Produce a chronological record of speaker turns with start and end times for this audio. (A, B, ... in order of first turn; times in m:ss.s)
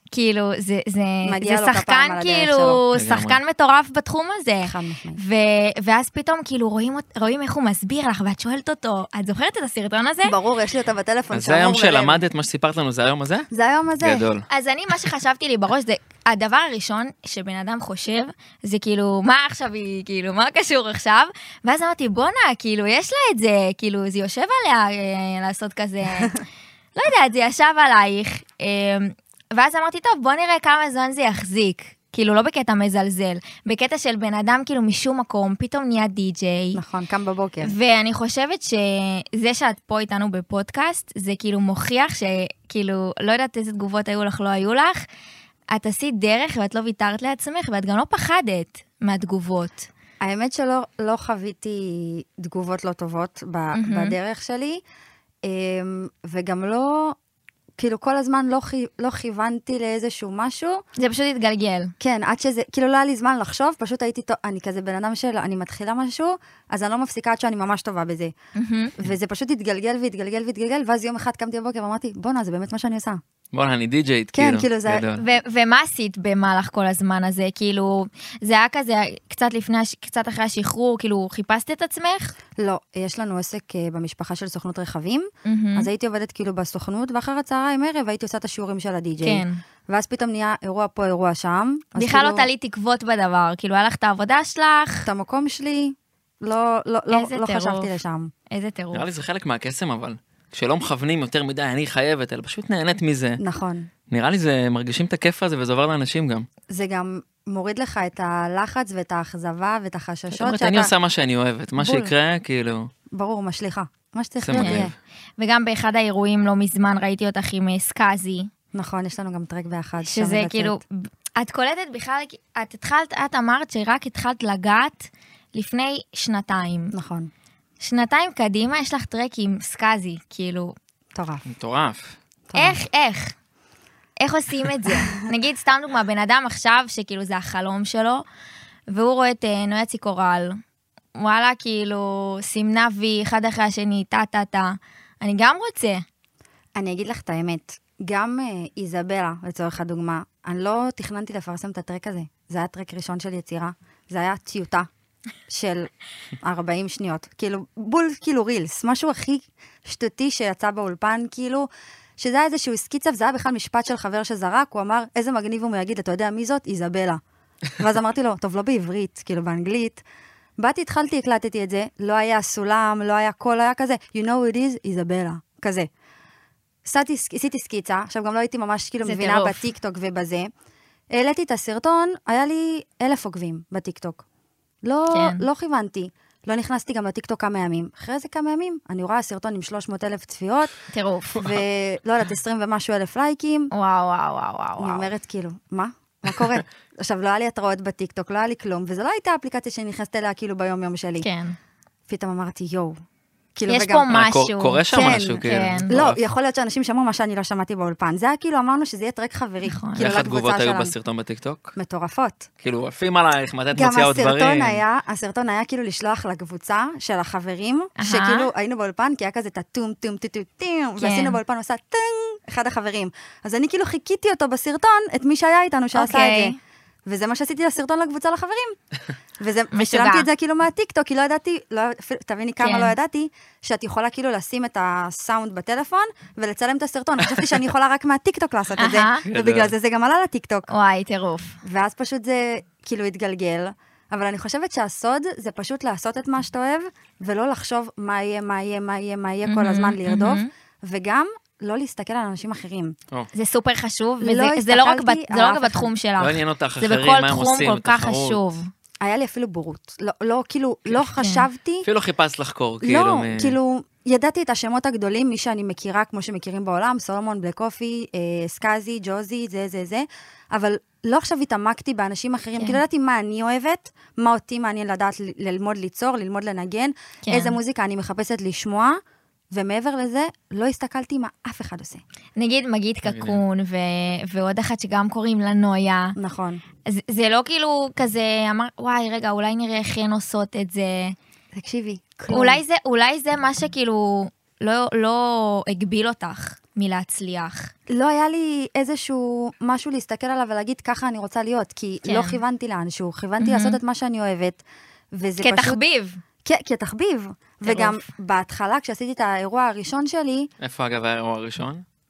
0:00.1-0:10.4 A
0:01.2-0:02.8 B
0:02.9-0:03.4 C
0:04.6-0:05.2 B
0:10.2-0:12.2 B
0:11.3-0:13.5 C
0:13.5-0:14.3 B
0:14.0-0:14.5 C
0:14.5-0:26.4 A
0:27.0-0:36.8 A
0:36.8-0:37.7 B
0:37.6-0:45.0 A
0:45.7-0:49.9 A
0:50.2-0:54.8 B
0:53.7-0:54.2 A
0:55.4-0:57.2 B
0:57.8-1:00.8 B
1:01.0-1:01.9 A
1:02.0-1:08.3 B
1:08.6-1:08.9 A
1:09.0-1:13.2 B
1:13.5-1:15.2 C
1:14.4-1:15.1 B
1:15.2-1:22.4 A
1:22.6-1:32.5 B
1:25.4-1:25.9 A
1:29.2-1:29.6 A
1:32.0-1:35.1 A
1:35.1-1:38.3 B
1:37.1-1:38.0 A
1:38.5-1:39.1 A
1:38.9-1:43.4 C
1:43.4-1:43.9 B
1:44.1-1:46.5 C
1:46.7-1:50.9 B
1:50.3-1:52.9 C
1:51.8-1:52.1 B
1:53.1-1:54.9 B
1:54.4-1:55.0 C
1:54.5-1:54.9 A
1:55.4-1:58.5 A
1:58.7-2:00.8 B
2:00.0-2:06.9 A
2:06.9-2:07.3 B
2:07.8-2:10.8 A
2:11.2-2:11.4 B
2:11.5-2:12.2 C
2:12.5-2:12.8 B
2:12.6-2:13.4 A
2:14.2-2:18.2 A
2:18.9-2:20.6 A
2:21.2-2:26.0 A
2:26.8-2:34.9 B
2:35.5-2:35.9 B
2:36.4-2:47.2 B
2:47.8-2:50.0 B
2:50.6-2:55.9 B
2:56.8-3:00.5 B
2:59.0-2:59.7 A
3:01.1-3:04.2 B
3:04.8-3:10.8 B
3:05.1-3:05.5 A
3:10.9-3:11.4 A
3:11.4-3:13.7 B
3:13.7-3:15.1 A
3:14.8-3:21.3 B
3:21.2-3:21.6 A
3:22.1-3:23.0 B
3:23.6-3:24.1 B
3:23.7-3:24.8 A
3:24.1-3:26.2 C
3:24.9-3:30.9 B
3:25.4-3:25.9 A
3:29.6-3:30.2 A
3:30.0-3:31.7 C
3:31.8-3:32.5 B
3:32.6-3:34.8 C
3:33.7-3:46.6 B
3:38.0-3:38.5 A
3:41.0-3:41.4 A
3:46.0-3:46.6 A
3:47.1-3:48.8 B
3:49.4-4:00.7 B
3:49.7-3:50.3 A
3:52.6-3:53.0 A
3:58.8-3:59.2 A
3:59.3-3:59.7 C
4:00.7-4:01.6 A
4:01.6-4:13.0 B
4:09.5-4:10.5 A
4:13.3-4:18.7 A
4:14.2-4:15.9 B
4:16.2-4:18.4 C
4:19.0-4:21.9 B
4:21.1-4:21.5 A
4:21.8-4:23.6 C
4:22.8-4:39.0 B
4:37.3-4:37.6 A
4:39.5-4:42.0 B
4:42.4-4:46.2 A
4:43.0-4:43.4 C
4:46.2-4:46.6 B
4:46.9-4:51.2 A
4:51.5-4:52.6 B
4:52.3-4:57.7 A
4:57.9-5:04.6 B
5:02.1-5:02.4 A
5:03.4-5:03.8 A
5:05.1-5:05.8 B
5:05.4-5:06.2 A
5:06.4-5:10.5 B
5:07.6-5:08.1 A
5:10.6-5:11.8 C